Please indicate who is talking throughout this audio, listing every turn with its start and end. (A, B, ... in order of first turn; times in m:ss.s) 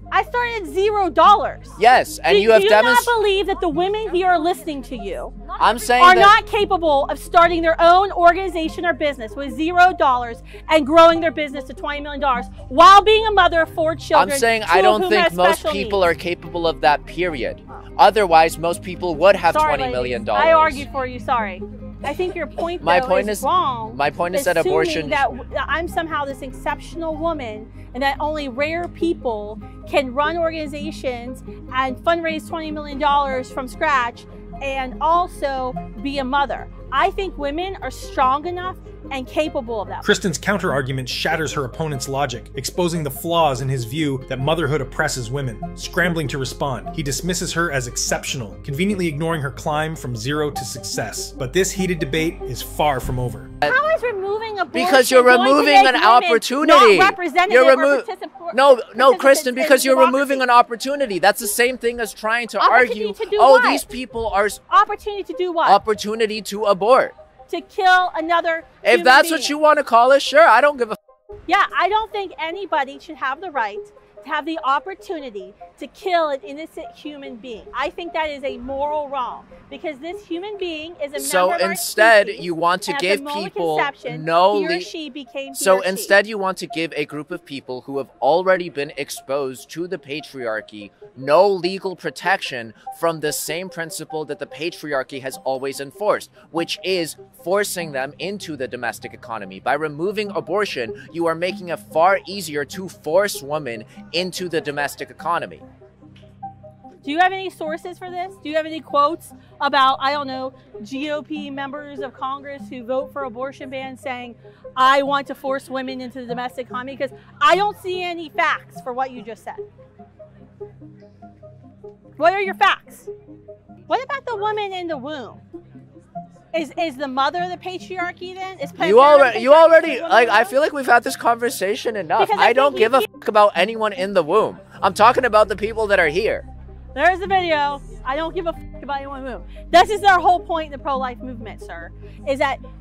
0:00.1-0:16.0 A
0:01.8-0:03.1 B
0:05.6-0:06.4 B
0:14.1-0:20.9 B
0:19.4-0:40.2 A
0:22.8-0:25.2 B
0:40.0-0:53.5 C
0:53.6-1:00.4 A
0:54.7-1:04.6 B
1:02.6-1:03.8 A
1:04.7-1:05.8 A
1:05.6-1:07.1 B
1:07.5-1:09.6 A
1:08.8-1:11.0 B
1:11.5-1:26.1 A
1:21.2-1:24.9 B
1:25.5-1:45.6 B
1:47.0-1:59.6 A
2:02.2-2:03.1 A
2:03.9-2:05.4 A
2:06.5-2:10.5 A
2:08.8-2:16.4 B
2:12.2-2:13.0 A
2:16.9-2:22.6 A